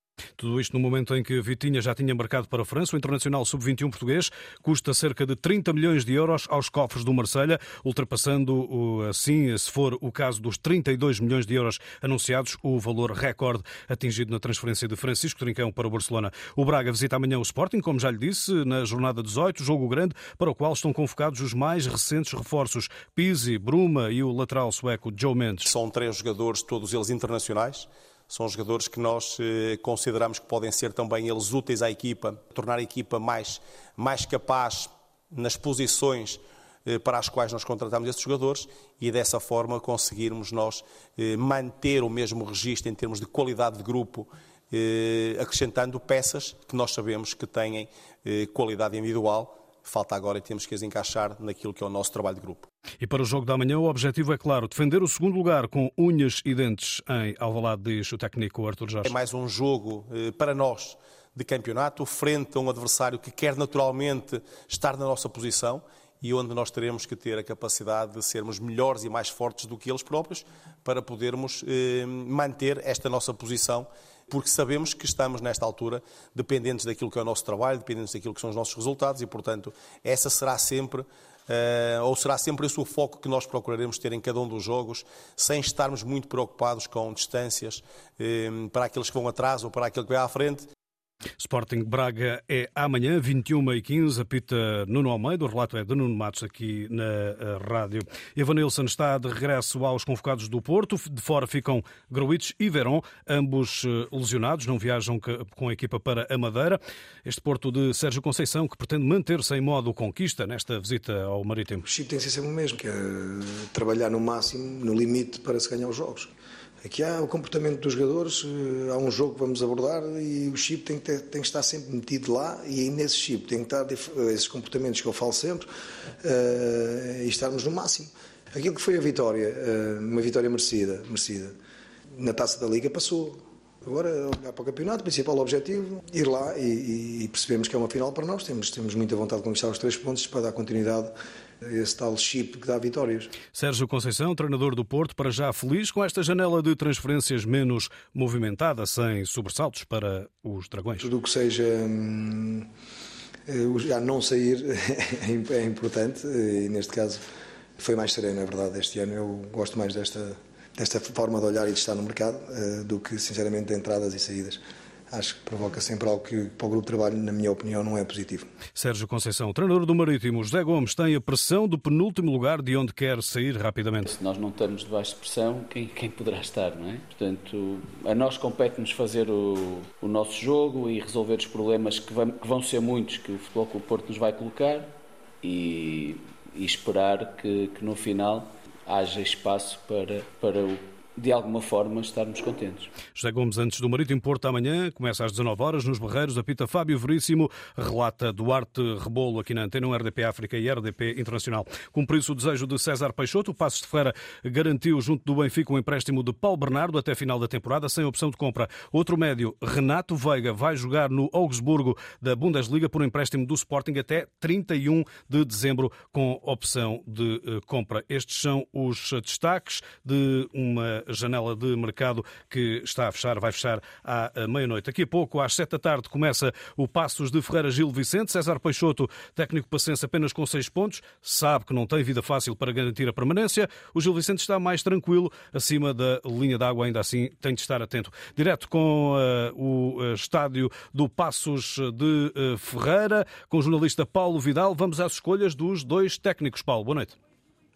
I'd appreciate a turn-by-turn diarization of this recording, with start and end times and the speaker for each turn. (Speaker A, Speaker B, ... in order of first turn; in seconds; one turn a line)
Speaker A: 0.4-25.7
Speaker B: 25.6-52.7
Speaker A: 53.0-59.1
Speaker B: 59.0-90.7
Speaker A: 91.4-111.8
Speaker C: 111.8-116.3
Speaker C: 116.8-125.7
Speaker C: 126.2-131.5
Speaker C: 132.2-141.1
Speaker C: 141.6-143.3
Speaker A: 143.5-151.1
Speaker C: 151.0-152.6
Speaker C: 153.5-157.2
Speaker C: 157.8-164.6
Speaker C: 165.1-168.5
Speaker A: 168.7-174.1
Speaker D: 174.1-192.9
Speaker A: 193.1-247.2